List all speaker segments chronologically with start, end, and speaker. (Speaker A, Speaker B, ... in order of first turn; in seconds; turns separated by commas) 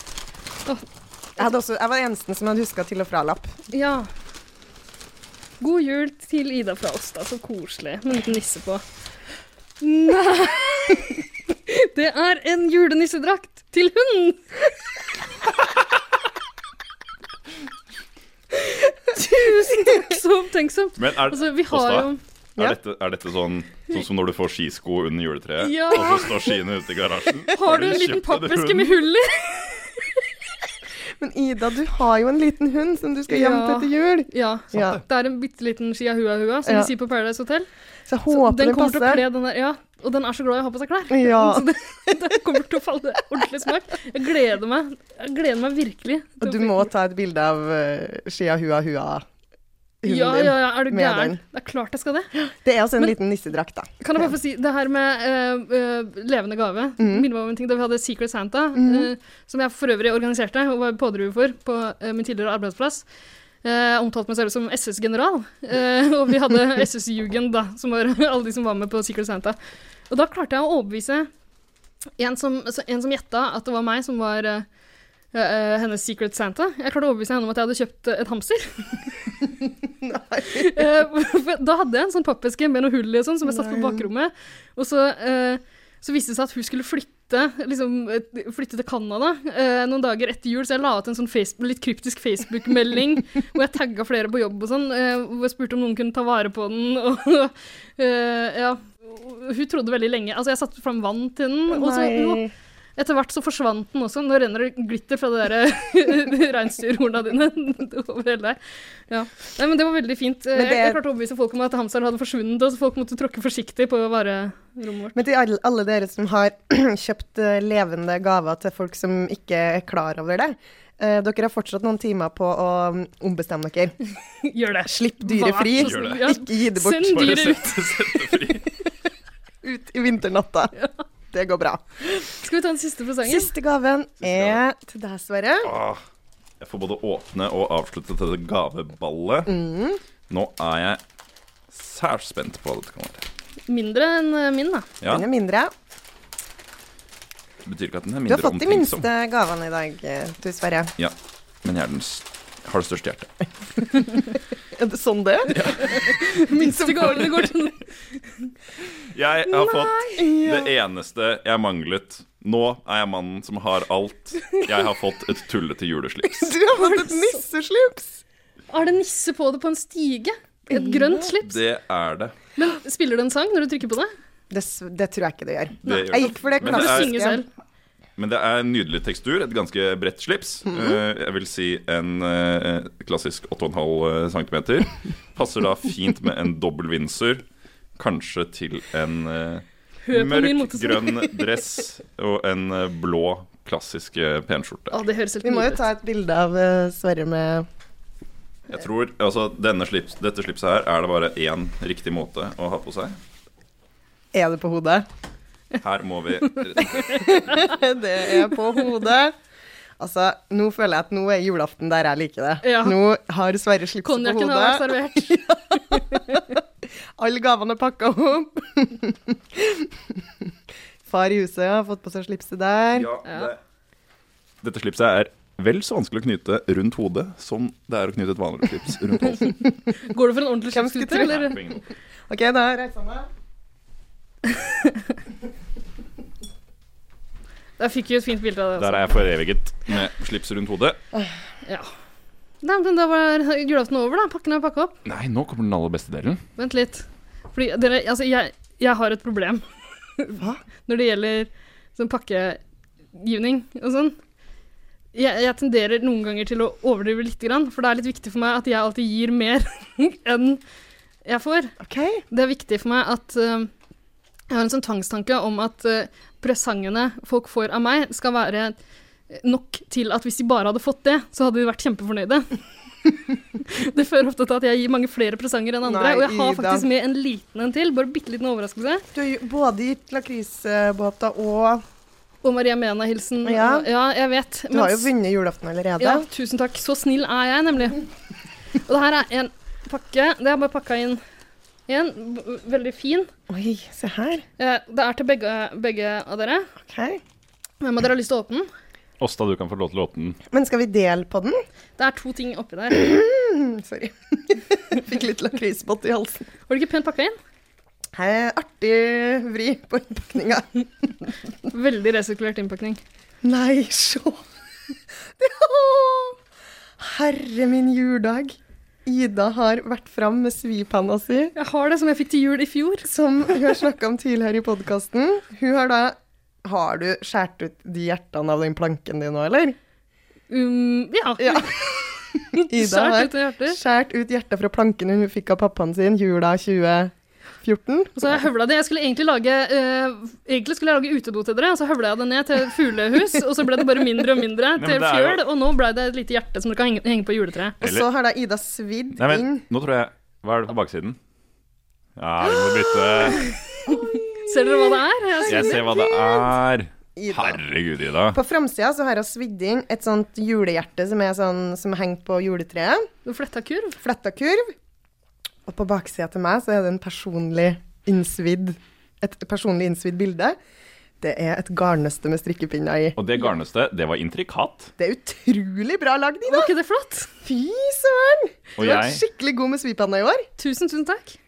Speaker A: 1.4-3.6, Speaker B: 3.7-4.1, Speaker B: 5.6-8.8, Speaker B: 9.8-14.5, Speaker B: 18.5-22.2, Speaker C: 21.0-29.0, Speaker B: 25.6-26.5, Speaker B: 27.5-30.1, Speaker A: 31.2-35.0, Speaker B: 33.3-37.7, Speaker A: 36.6-36.9, Speaker A: 38.1-39.2, Speaker B: 38.3-46.9, Speaker A: 41.1-42.3, Speaker A: 46.4-49.2, Speaker A: 50.0-51.4, Speaker B: 50.0-52.3, Speaker A: 52.3-54.3, Speaker B: 54.0-63.0, Speaker A: 57.0-57.3, Speaker A: 58.8-59.1, Speaker B: 63.6-69.5, Speaker B: 70.1-71.3, Speaker B: 72.2-74.7, Speaker B: 75.3-79.1, Speaker A: 80.0-80.8, Speaker B: 80.5-102.4, Speaker A: 83.4-84.1, Speaker A: 101.7-102.5, Speaker B: 103.0-115.2, Speaker A: 110.5-111.0, Speaker A: 115.1-124.0, Speaker B: 124.4-128.3, Speaker A: 124.9-127.4, Speaker C: 125.7-126.3, Speaker C: 127.1-128.7, Speaker A: 129.6-130.7, Speaker B: 130.8-131.0, Speaker A: 131.3-132.2, Speaker B: 132.3-133.5, Speaker A: 133.2-135.7, Speaker C: 134.2-134.6, Speaker C: 135.6-136.0, Speaker C: 136.6-139.5, Speaker A: 139.4-140.0, Speaker C: 140.3-141.0, Speaker C: 141.7-143.2, Speaker B: 143.7-144.9, Speaker A: 145.1-145.7, Speaker C: 147.6-149.1, Speaker A: 148.2-150.9, Speaker C: 151.0-153.4, Speaker A: 154.7-155.6, Speaker C: 155.5-156.2, Speaker B: 155.8-158.5, Speaker A: 156.5-157.4, Speaker C: 159.1-166.5, Speaker B: 159.5-160.3, Speaker A: 160.2-160.7, Speaker A: 166.3-168.2, Speaker B: 166.7-167.4, Speaker B: 168.7-171.6, Speaker A: 170.7-171.2, Speaker C: 171.3-172.3, Speaker B: 172.6-174.1, Speaker A: 174.5-177.4, Speaker C: 175.8-177.2, Speaker B: 175.8-177.5, Speaker C: 178.2-187.4, Speaker A: 180.7-181.0, Speaker C: 188.0-195.0, Speaker B: 190.1-191.3, Speaker B: 194.9-195.8, Speaker A: 195.4-197.7, Speaker C: 198.7-203.2, Speaker A: 204.3-205.1, Speaker C: 205.8-207.6, Speaker B: 206.4-207.8, Speaker A: 207.2-209.3, Speaker A: 210.0-216.6, Speaker B: 212.6-213.0, Speaker B: 214.0-216.5, Speaker A: 217.2-220.5, Speaker A: 221.1-223.1, Speaker C: 222.9-223.6, Speaker B: 223.2-223.5, Speaker C: 224.6-229.6, Speaker B: 229.9-231.6, Speaker A: 230.7-231.8, Speaker C: 231.2-231.8, Speaker A: 232.3-233.3, Speaker B: 234.5-235.1, Speaker B: 237.8-239.1, Speaker C: 238.8-241.0, Speaker B: 241.6-241.9, Speaker B: 242.6-245.0, Speaker C: 245.0-246.4, Speaker B: 246.6-249.6, Speaker B: 250.2-252.6, Speaker B: 253.1-254.2, Speaker B: 255.1-260.6, Speaker B: 261.2-261.7, Speaker A: 261.8-262.2, Speaker B: 262.3-263.7, Speaker B: 264.5-268.7, Speaker B: 269.3-272.5, Speaker B: 273.6-279.0, Speaker A: 275.8-276.9, Speaker A: 279.1-281.8, Speaker B: 282.4-285.1, Speaker A: 283.4-283.9, Speaker A: 284.7-286.3, Speaker B: 286.0-288.0, Speaker B: 288.9-291.2, Speaker B: 291.9-293.3, Speaker A: 293.5-294.4, Speaker B: 294.6-296.7, Speaker A: 296.9-297.2, Speaker B: 297.8-298.7, Speaker C: 299.2-300.4, Speaker A: 300.5-301.6, Speaker B: 302.0-303.1, Speaker A: 302.9-306.4, Speaker B: 306.7-307.4, Speaker A: 308.1-311.1, Speaker B: 311.6-313.0, Speaker A: 313.4-314.4, Speaker A: 315.4-316.4, Speaker A: 317.0-321.5, Speaker B: 321.6-323.1, Speaker A: 323.1-329.8, Speaker B: 330.5-333.8, Speaker A: 331.4-338.4, Speaker B: 338.1-347.8, Speaker C: 344.8-345.4, Speaker A: 347.8-349.6, Speaker C: 349.1-351.2, Speaker C: 352.2-353.5, Speaker B: 353.3-355.9, Speaker A: 353.9-356.4, Speaker C: 355.5-358.4, Speaker A: 357.1-357.6, Speaker A: 358.3-363.1, Speaker B: 363.2-364.0, Speaker A: 364.0-364.7, Speaker A: 365.6-370.6, Speaker A: 371.2-373.2, Speaker C: 373.1-374.9, Speaker A: 375.0-376.7, Speaker B: 376.5-377.3, Speaker A: 377.4-380.5, Speaker C: 378.8-379.2, Speaker B: 380.6-381.4